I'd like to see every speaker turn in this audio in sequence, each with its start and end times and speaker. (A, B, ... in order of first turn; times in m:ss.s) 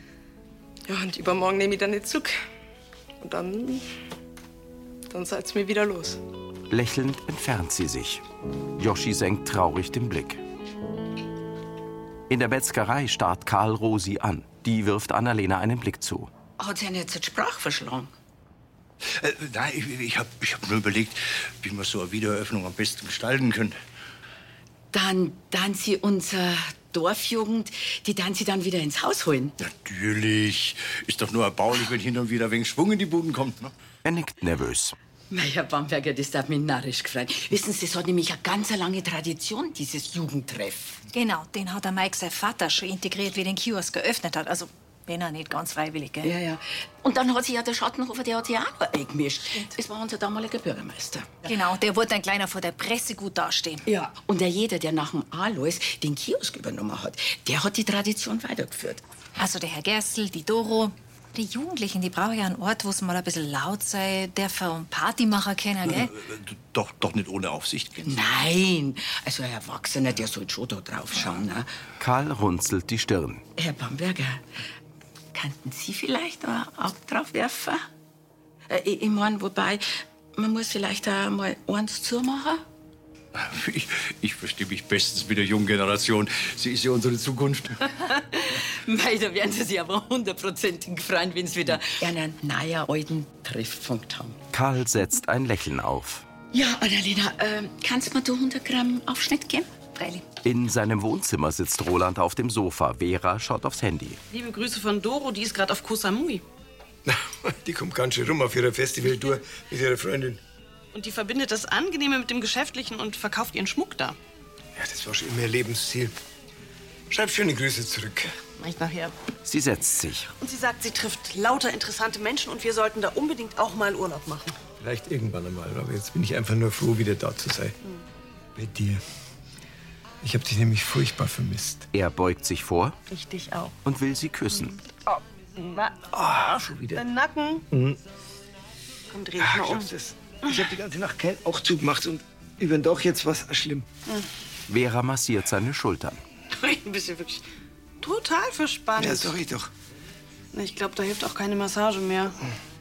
0:00.9-0:02.3 A
0:03.2-0:03.8 A
0:05.1-0:06.2 A
0:06.7-0:08.2 B
0:08.8-0:10.4 B
0:12.3-0:16.3 B
0:16.6-0:18.1 C
0:19.0-0:23.8 D
0:24.9-0:29.5 C
0:29.6-0:33.7 D
0:34.0-0:35.0 B
0:35.3-0:41.0 C
0:41.1-0:46.3 E
0:46.2-0:51.3 C
0:51.4-0:53.8 E
0:53.8-0:59.0 C
0:59.4-1:06.1 E
1:05.9-1:08.1 D
1:08.0-1:11.7 C
1:12.0-1:13.4 B
1:13.6-1:14.4 C
1:15.3-1:17.8 C
1:18.7-1:22.6 C
1:23.3-1:27.8 D
1:28.4-1:34.4 C
1:34.5-1:36.2 B
1:36.5-1:40.2 C
1:40.4-1:44.2 B
1:44.3-1:46.4 F
1:47.0-1:50.4 G
1:50.9-1:54.2 F
1:54.8-1:56.1 G
1:57.1-1:58.3 G
1:58.6-1:59.1 F
1:59.4-2:00.3 B
2:00.4-2:04.6 F
2:04.8-2:07.8 G
2:08.6-2:09.0 G
2:10.2-2:11.9 G
2:11.9-2:13.0 B
2:13.1-2:13.7 F
2:13.8-2:14.8 B
2:15.6-2:17.6 F
2:16.1-2:17.0 G
2:17.7-2:18.0 G
2:19.1-2:19.9 F
2:19.4-2:23.8 G
2:24.7-2:26.2 B
2:26.5-2:27.4 F
2:28.0-2:29.4 F
2:29.0-2:29.7 G
2:30.5-2:32.4 F